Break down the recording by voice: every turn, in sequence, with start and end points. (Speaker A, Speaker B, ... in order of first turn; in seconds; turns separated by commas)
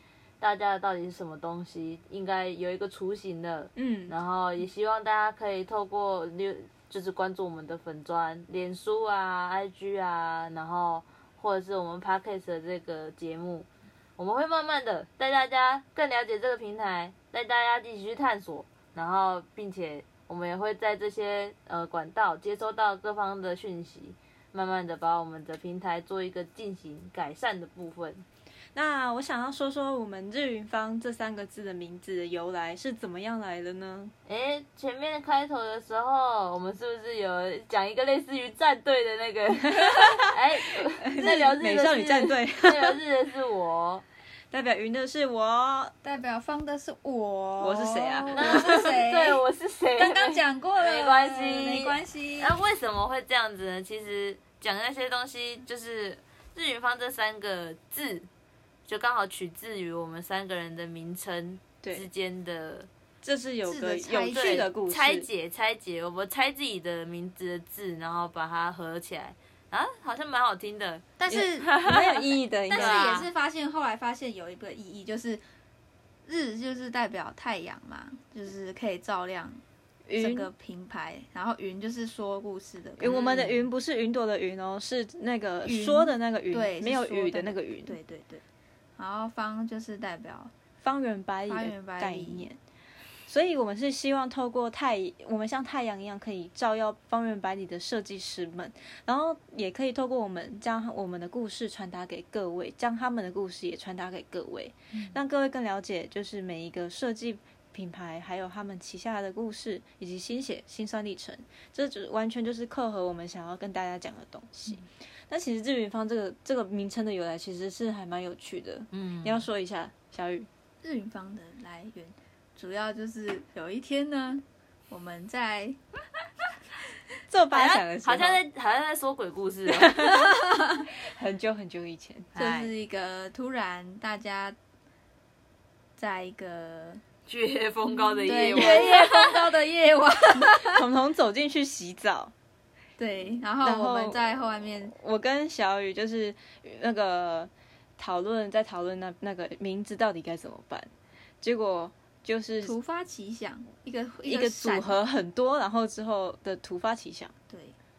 Speaker A: 0.4-28.2, Speaker B: 3.8-4.2, Speaker B: 28.8-34.1, Speaker A: 34.3-44.0, Speaker B: 41.0-43.0, Speaker C: 41.2-41.5, Speaker B: 44.5-46.0, Speaker C: 46.0-49.4, Speaker B: 47.6-49.0, Speaker A: 48.3-58.3, Speaker C: 50.0-52.6, Speaker A: 58.9-62.9, Speaker B: 61.8-62.1, Speaker B: 63.2-65.3, Speaker C: 63.6-64.7, Speaker A: 64.3-71.1, Speaker C: 71.2-71.8, Speaker B: 71.3-73.2, Speaker A: 71.6-73.3, Speaker C: 72.7-75.4, Speaker C: 76.3-79.6, Speaker B: 80.1-80.5, Speaker C: 80.2-83.2, Speaker B: 83.0-88.0, Speaker A: 83.0-83.6, Speaker C: 85.7-88.4, Speaker C: 89.0-90.5, Speaker B: 90.8-92.6, Speaker C: 91.5-92.5, Speaker B: 93.3-120.5, Speaker C: 104.9-105.2, Speaker A: 118.9-119.5, Speaker C: 120.8-125.8, Speaker B: 127.3-128.4, Speaker A: 127.5-130.0, Speaker B: 129.7-132.3, Speaker C: 130.2-130.6, Speaker A: 132.3-132.7, Speaker C: 132.4-134.6, Speaker C: 136.0-137.0, Speaker A: 137.3-139.0, Speaker C: 138.2-140.8, Speaker B: 138.5-139.2, Speaker B: 140.6-142.3, Speaker C: 143.0-144.9, Speaker B: 143.6-150.9, Speaker B: 151.4-152.8, Speaker C: 152.6-155.0, Speaker B: 154.2-157.3, Speaker C: 157.5-157.8